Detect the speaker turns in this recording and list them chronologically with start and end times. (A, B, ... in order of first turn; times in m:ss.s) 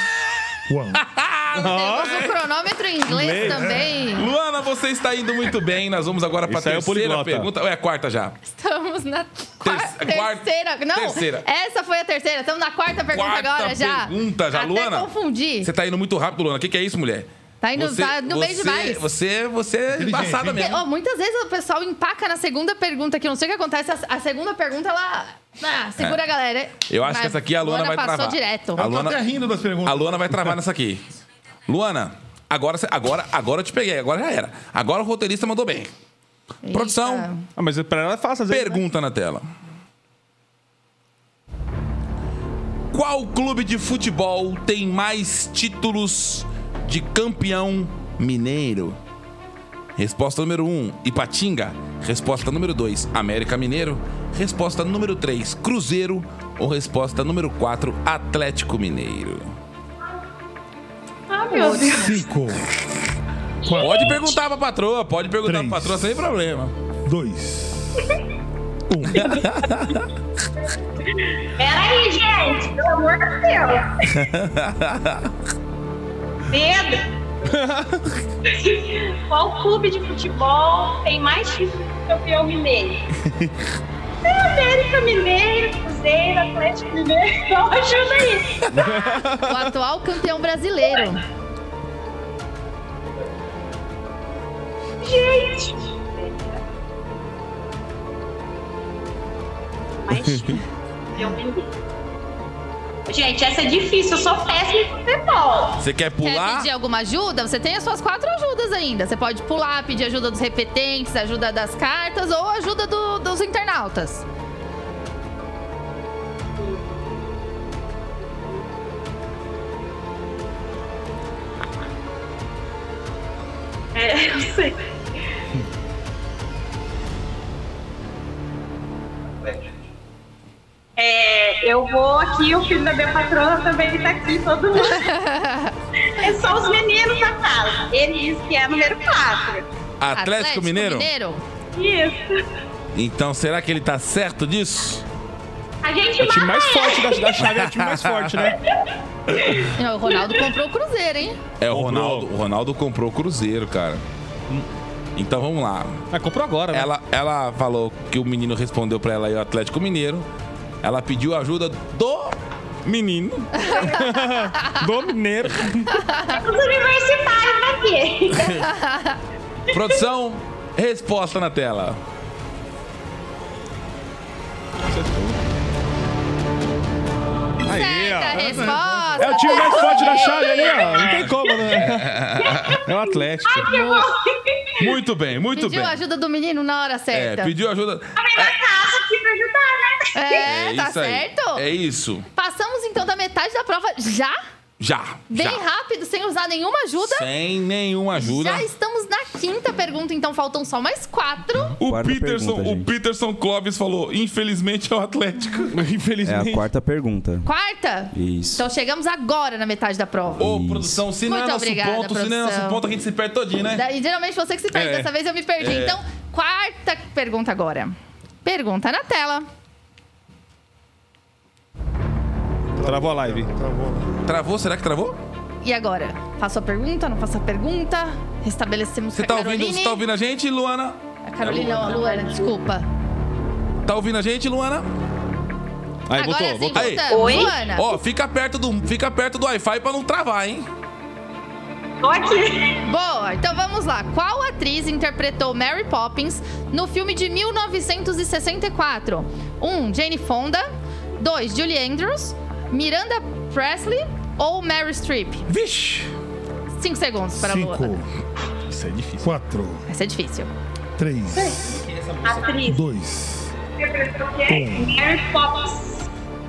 0:00.7-0:01.0 A
0:00.9-0:02.3 B
0:01.5-0:02.3 C
0:01.6-0:04.3 D
0:03.0-0:03.7 C
0:03.5-0:03.9 A
0:04.1-0:08.4 B
0:06.5-0:07.5 C
0:08.5-0:15.7 D
0:09.6-0:11.4 B
0:13.1-0:15.1 B
0:15.6-0:20.8 B
0:17.6-0:19.0 D
0:19.9-0:20.7 A
0:20.5-0:28.8 D
0:26.9-0:29.2 B
0:28.8-0:30.6 A
0:29.8-0:31.1 B
0:31.7-0:35.9 B
0:36.6-0:37.4 D
0:36.7-0:37.3 B
0:37.6-0:38.8 C
0:38.5-0:39.5 B
0:42.9-0:49.0 B
0:50.0-0:59.5 B
1:01.3-1:02.2 E
1:01.5-1:02.1 D
1:01.9-1:02.7 A
1:03.6-1:04.3 A
1:03.8-1:06.7 B
1:05.4-1:06.2 A
1:07.0-1:08.0 A
1:08.9-1:09.5 A
1:09.1-1:10.0 B
1:11.6-1:14.0 E
1:14.1-1:15.3 B
1:16.5-1:17.0 E
1:17.4-1:18.1 C
1:18.5-1:23.0 E
1:24.2-1:28.7 E
1:28.7-1:29.7 C
1:29.4-1:31.2 D
1:35.0-1:36.6 E
1:40.0-1:40.6 E
1:41.1-1:41.7 E
1:43.0-1:45.8 E
1:45.8-1:46.7 B
1:46.2-1:54.2 D
1:56.6-1:56.9 E
2:03.9-2:04.8 E
2:11.0-2:15.1 E
2:14.7-2:15.7 D
2:16.2-2:19.6 E
2:20.0-2:21.1 B
2:20.1-2:21.4 D
2:21.7-2:22.4 E
2:22.9-2:25.0 B
2:25.8-2:27.4 E
2:26.2-2:28.6 C
2:27.4-2:28.5 B
2:29.3-2:29.6 B
2:29.8-2:31.4 D
2:31.6-2:36.1 B
2:31.7-2:32.3 C
2:36.1-2:36.9 C
2:36.7-2:40.3 B
2:40.8-2:43.5 B
2:43.5-2:44.8 D
2:43.9-2:46.0 C
2:45.9-2:46.4 D
2:46.3-2:48.5 E
2:48.3-2:48.7 B
2:48.7-2:49.2 D
2:49.7-2:52.0 B
2:54.9-2:55.4 C
2:57.6-3:02.2 C
2:57.7-3:01.2 D
2:58.3-2:59.6 A
2:59.6-3:04.9 E
3:01.0-3:02.8 B
3:02.9-3:03.7 C
3:03.6-3:04.1 D
3:04.8-3:06.0 B
3:05.5-3:07.5 D
3:07.1-3:08.6 B
3:08.2-3:10.5 E
3:10.1-3:11.6 D
3:10.5-3:12.3 B
3:12.3-3:14.4 D
3:14.8-3:15.6 B
3:15.3-3:17.3 D
3:17.0-3:18.7 B
3:18.2-3:21.7 D
3:21.8-3:25.7 B
3:21.8-3:22.9 F
3:25.7-3:26.7 C
3:26.2-3:27.5 F
3:27.4-3:30.4 D
3:28.1-3:28.6 F
3:30.4-3:31.0 F
3:30.4-3:33.8 B
3:31.2-3:32.8 D
3:33.7-3:39.5 D
3:34.7-3:35.1 C
3:35.6-3:36.0 B
3:42.7-3:44.2 A
3:42.8-3:43.5 C
3:44.2-3:45.2 B
3:45.6-3:50.0 D
3:49.1-3:52.0 B
3:51.2-3:52.8 D
3:52.0-3:52.4 E
3:53.8-3:54.9 B
3:56.1-3:57.0 C
3:56.1-3:57.9 D
3:56.8-4:00.7 B
3:57.1-3:57.5 E
4:02.0-4:02.8 E
4:02.8-4:15.4 D
4:15.5-4:16.1 C
4:16.8-4:17.9 D
4:17.4-4:18.1 A
4:18.6-4:19.3 C
4:19.2-4:19.8 A
4:19.9-4:20.5 D
4:21.0-4:21.8 A
4:21.3-4:22.8 E
4:21.6-4:22.6 B
4:22.6-4:23.5 A
4:23.9-4:26.1 E
4:24.5-4:25.0 A